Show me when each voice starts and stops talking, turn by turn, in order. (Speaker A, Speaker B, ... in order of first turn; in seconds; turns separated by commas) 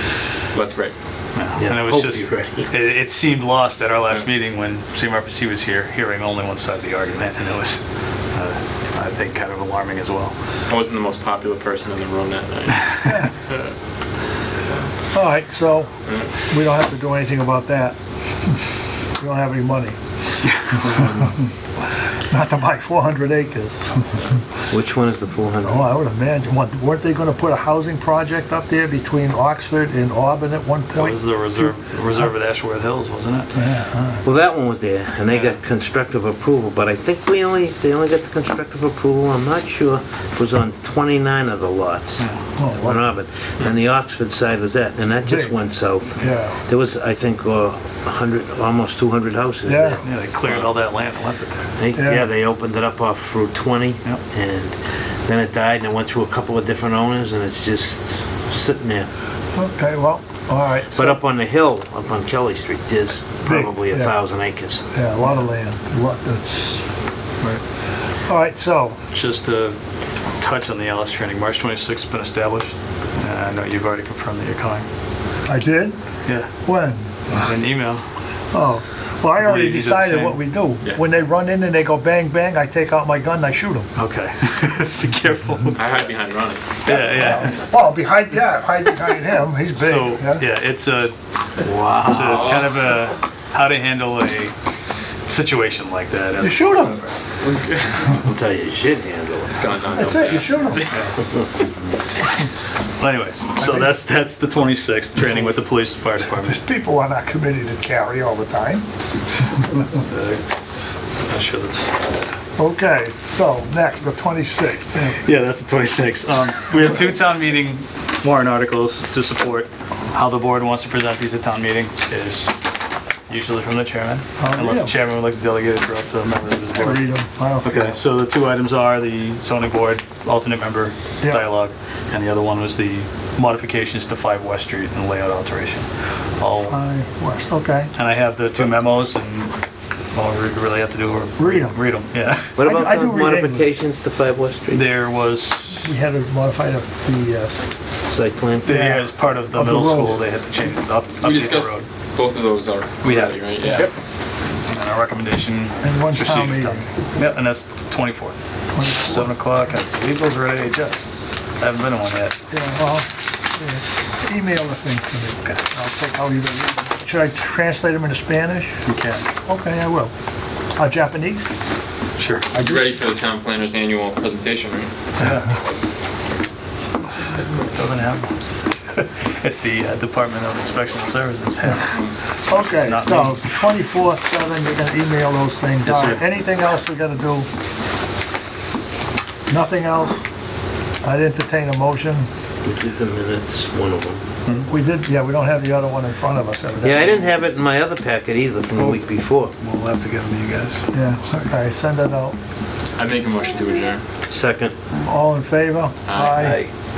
Speaker A: 0.5-0.9, Speaker B: 1.4-10.3, Speaker C: 1.6-2.7, Speaker A: 10.7-13.7, Speaker D: 13.0-13.3, Speaker D: 15.1-18.0, Speaker A: 16.1-16.3, Speaker D: 19.2-20.0, Speaker A: 20.8-21.3, Speaker D: 21.0-21.3, Speaker D: 22.2-24.1, Speaker C: 24.7-25.9, Speaker D: 25.6-31.7, Speaker B: 30.9-33.6, Speaker D: 33.5-34.2, Speaker C: 34.2-50.0, Speaker B: 35.3-35.6, Speaker B: 42.2-42.4, Speaker D: 42.6-43.1, Speaker D: 45.3-45.5, Speaker D: 46.2-46.6, Speaker D: 49.7-50.0, Speaker B: 50.0-51.7, Speaker C: 51.8-59.1, Speaker D: 52.0-52.3, Speaker D: 59.5-61.2, Speaker C: 60.9-64.9, Speaker D: 63.5-64.2, Speaker D: 64.9-66.8, Speaker D: 68.3-69.0, Speaker B: 69.1-69.8, Speaker B: 70.4-74.9, Speaker D: 75.5-76.0, Speaker B: 76.3-76.5, Speaker D: 76.6-77.1, Speaker B: 77.3-78.0, Speaker D: 78.5-83.9, Speaker B: 79.4-80.4, Speaker B: 84.0-85.8, Speaker A: 85.8-86.7, Speaker B: 86.8-87.7, Speaker D: 86.9-90.5, Speaker B: 89.8-94.5, Speaker C: 91.6-92.6, Speaker A: 92.3-92.7, Speaker B: 95.3-97.1, Speaker D: 96.4-97.0, Speaker A: 97.4-98.1, Speaker C: 98.2-100.1, Speaker A: 99.5-101.0, Speaker D: 100.0-100.9, Speaker B: 103.0-106.6, Speaker D: 103.6-104.0, Speaker D: 106.4-108.9, Speaker B: 110.0-110.4, Speaker B: 111.2-112.1, Speaker D: 112.6-115.2, Speaker B: 115.2-122.6, Speaker B: 123.3-136.8, Speaker D: 124.4-125.0, Speaker D: 126.8-127.9, Speaker D: 136.7-137.9, Speaker B: 137.9-139.6, Speaker B: 140.1-142.6, Speaker D: 141.4-141.8, Speaker C: 142.6-144.8, Speaker D: 142.6-143.7, Speaker B: 144.7-145.9, Speaker D: 145.8-147.6, Speaker C: 148.1-149.1, Speaker B: 148.7-151.9, Speaker D: 149.5-150.2, Speaker A: 151.2-153.9, Speaker B: 153.0-153.9, Speaker B: 154.7-161.1, Speaker D: 155.8-156.9, Speaker D: 158.7-159.3, Speaker B: 161.6-162.4, Speaker D: 162.5-168.8, Speaker B: 168.9-169.3, Speaker D: 169.5-170.1, Speaker D: 170.8-171.6, Speaker B: 172.2-172.4, Speaker A: 172.3-174.9, Speaker D: 172.5-172.9, Speaker B: 175.2-175.5, Speaker B: 177.7-178.3, Speaker B: 178.9-183.5, Speaker D: 182.5-187.5, Speaker B: 185.8-186.2, Speaker D: 189.5-190.2, Speaker D: 191.0-192.3, Speaker C: 192.6-194.2, Speaker D: 194.7-197.1, Speaker C: 196.8-199.5, Speaker B: 198.8-199.1, Speaker B: 199.6-201.5, Speaker D: 200.9-202.4, Speaker A: 203.0-204.0, Speaker C: 204.3-204.8, Speaker D: 205.0-206.6, Speaker A: 206.1-206.6, Speaker B: 206.4-206.7